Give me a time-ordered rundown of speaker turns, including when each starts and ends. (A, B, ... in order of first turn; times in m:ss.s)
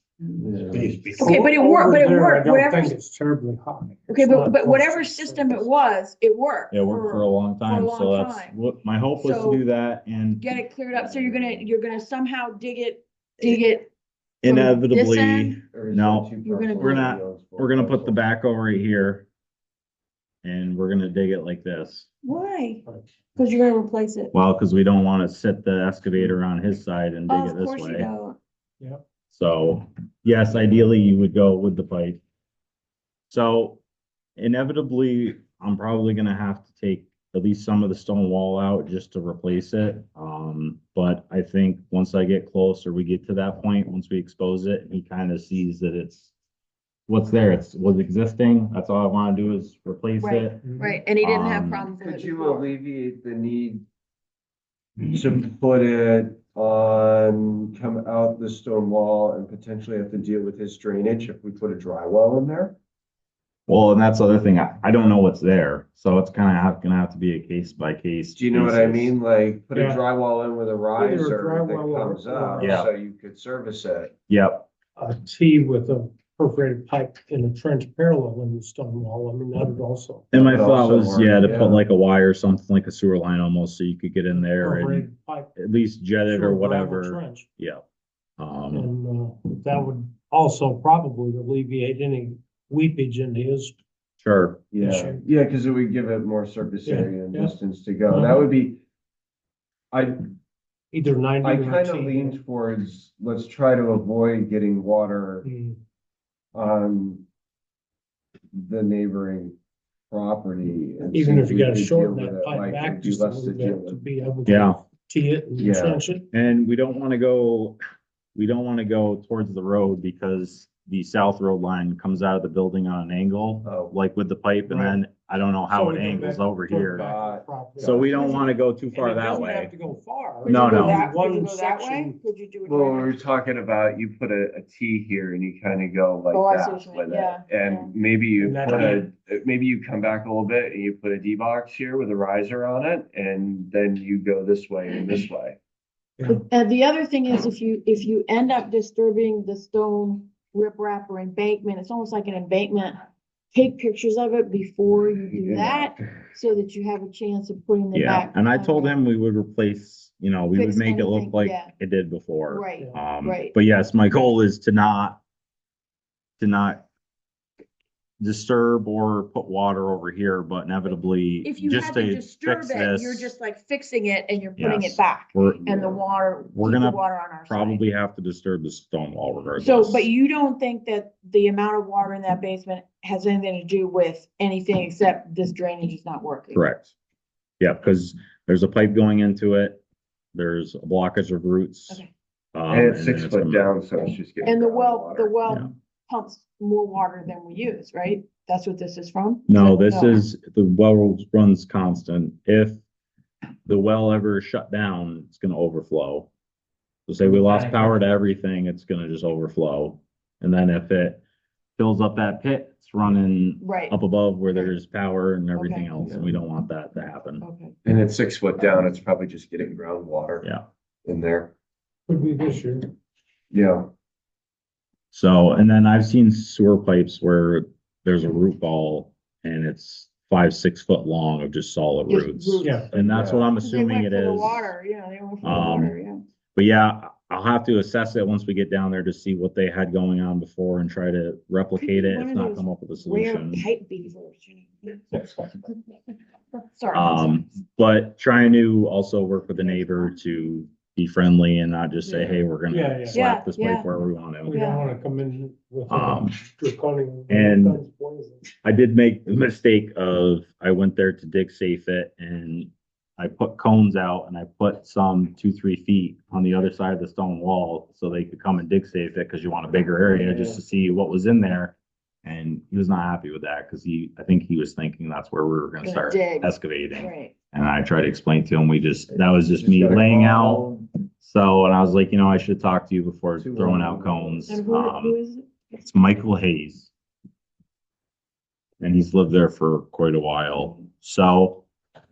0:00.4-0:01.3 A
0:00.7-0:05.7 B
0:01.2-0:03.0 C
0:04.1-0:08.5 C
0:06.7-0:10.5 D
0:09.2-0:09.6 C
0:10.4-0:13.9 C
0:10.9-0:11.7 A
0:14.4-0:19.3 D
0:14.4-0:15.6 C
0:15.7-0:18.2 A
0:16.4-0:17.1 C
0:20.4-0:22.1 D
0:22.2-0:22.8 C
0:23.3-0:24.3 C
0:24.3-0:28.1 D
0:27.3-0:28.4 C
0:29.3-0:32.2 D
0:33.3-0:33.8 D
0:34.4-0:46.3 D
0:47.1-0:50.6 D
0:50.2-0:52.7 C
0:50.6-0:51.0 B
0:51.2-0:51.9 D
0:52.0-0:53.8 A
0:55.0-1:02.8 A
1:03.7-1:09.1 D
1:08.3-1:14.1 A
1:09.7-1:10.0 B
1:11.0-1:12.9 B
1:12.6-1:12.9 D
1:14.3-1:14.7 D
1:15.0-1:20.3 B
1:20.3-1:21.8 A
1:20.3-1:27.8 D
1:24.3-1:25.5 B
1:26.3-1:27.5 B
1:28.4-1:28.9 D
1:28.7-1:33.8 B
1:34.2-1:34.6 D
1:34.7-1:38.8 A
1:34.8-1:35.2 B
1:36.8-1:37.6 B
1:38.1-1:38.4 B
1:39.9-1:40.2 A
1:40.9-1:42.4 B
1:41.4-1:45.5 A
1:45.4-1:45.8 B
1:46.5-1:47.2 A
1:48.5-1:49.6 A
1:50.1-1:54.0 A
1:51.1-1:56.2 B
1:54.4-1:54.8 D
1:55.6-1:56.0 A
1:56.3-1:57.8 D
1:58.3-2:07.0 D
2:03.6-2:03.9 A
2:04.7-2:05.0 B
2:05.7-2:12.2 B
2:06.9-2:08.1 A
2:07.8-2:09.7 D
2:10.4-2:13.2 C
2:10.4-2:11.0 D
2:12.6-2:25.6 A
2:16.3-2:17.9 C
2:18.4-2:19.0 B
2:26.3-2:39.0 C
2:35.3-2:36.1 A
2:37.9-2:45.2 D
2:40.5-2:41.7 C
2:42.5-2:43.6 C
2:46.4-2:46.8 D
2:48.2-2:53.3 D
2:51.4-2:57.8 C
2:54.6-2:56.0 D
2:56.5-3:00.1 D
2:59.6-3:06.6 C
3:06.5-3:06.9 D
3:07.6-3:09.8 D
3:10.3-3:13.7 D
3:12.7-3:15.3 A
3:14.4-3:20.2 C
3:19.5-3:22.8 D
3:23.6-3:26.3 D
3:27.1-3:31.2 D
3:31.8-3:37.4 D
3:33.6-3:34.0 C
3:35.5-3:35.9 C
3:37.4-3:37.7 C
3:37.8-3:40.5 A
3:41.0-3:41.5 A
3:42.1-3:42.9 B
3:43.5-3:43.9 A
3:45.1-3:54.7 D
3:52.1-3:52.9 C
3:52.6-3:52.9 B
3:52.9-3:53.5 A
3:53.6-3:56.2 C
3:55.4-3:55.9 D
3:56.5-4:03.6 D
4:01.8-4:06.0 C
4:06.6-4:07.3 C
4:06.9-4:14.6 D
4:09.6-4:10.1 C
4:12.1-4:12.4 C
4:12.7-4:13.2 B
4:13.1-4:13.9 C
4:14.4-4:18.4 B
4:14.5-4:14.9 C
4:15.9-4:16.4 D
4:17.3-4:17.8 D
4:18.6-4:45.2 D
4:35.8-4:37.3 C
4:39.5-4:40.8 A
4:43.4-4:44.6 A
4:44.5-4:45.4 C
4:45.7-4:46.9 D
4:48.8-4:51.6 D